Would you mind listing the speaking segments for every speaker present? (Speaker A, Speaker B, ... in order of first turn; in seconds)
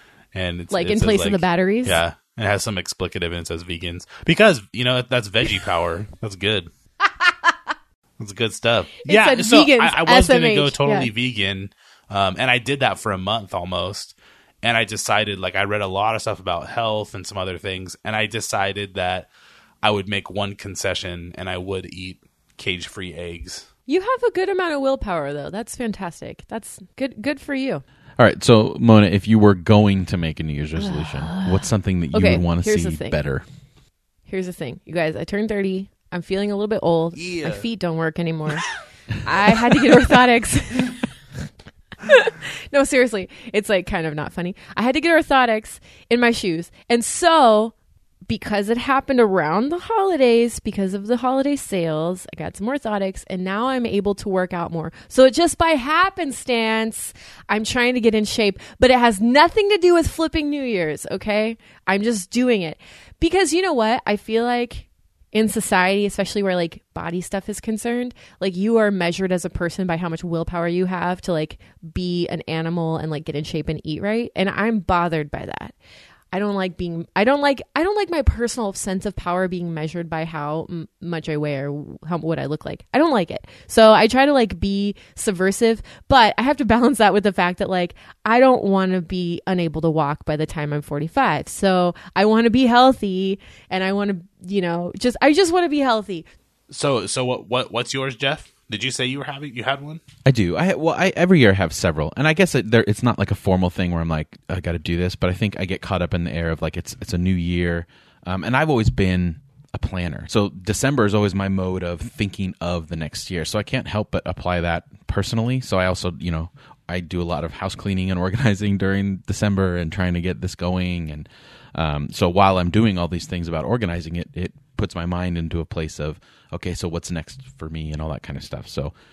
Speaker A: 0.3-6.7, 8.2-19.3, 19.8-23.7, 37.1-37.6, 96.7-100.0
Speaker B: 0.7-2.0, 9.0-11.1, 23.9-27.8, 30.8-33.2, 34.2-38.7, 39.2-41.1, 42.0-47.7, 48.3-75.7, 76.3-96.2
Speaker C: 28.2-33.4, 100.2-128.9